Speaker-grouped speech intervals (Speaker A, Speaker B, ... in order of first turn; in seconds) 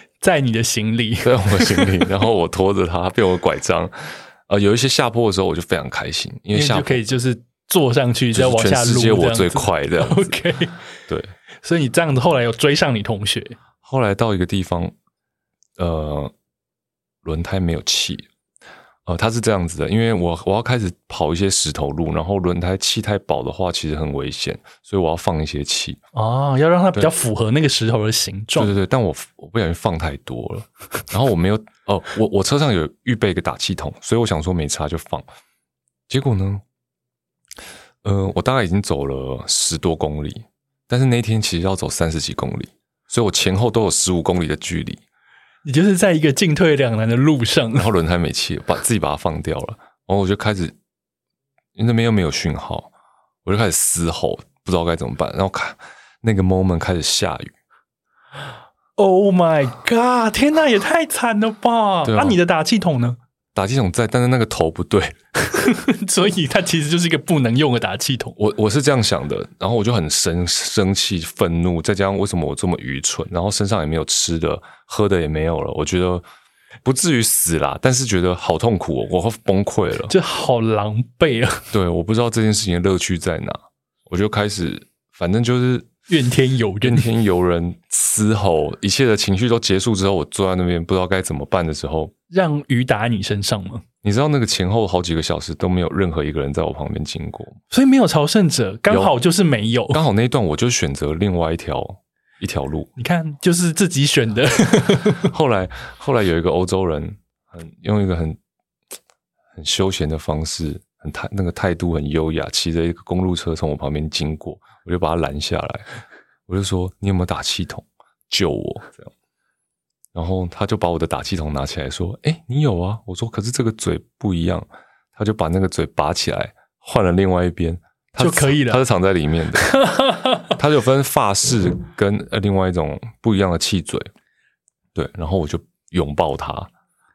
Speaker A: 0.2-1.9, 6.5-10.8, 11.6-13.6, 26.1-28.7, 45.6-47.9, 59.0-63.2, 65.5-68.4, 80.1-81.7, 86.1-87.1, 92.3-93.8, 97.7-100.0, 103.0-105.3, 128.2-128.8, 129.6-130.6
Speaker B: 1.2-7.0, 8.3-10.3, 11.1-11.3, 13.8-14.9, 15.8-16.3, 17.2-18.3, 19.1-26.0, 28.6-35.3, 36.1-36.6, 38.0-45.0, 47.8-50.8, 51.8-52.9, 53.5-57.5, 62.1-62.4, 63.5-65.2, 68.4-76.2, 76.8-80.1, 81.7-85.9, 86.8-92.1, 94.0-97.6, 99.9-102.9, 105.2-108.4, 109.6-115.9, 116.5-119.1, 120.1-129.8, 130.6-134.1, 134.9-136.7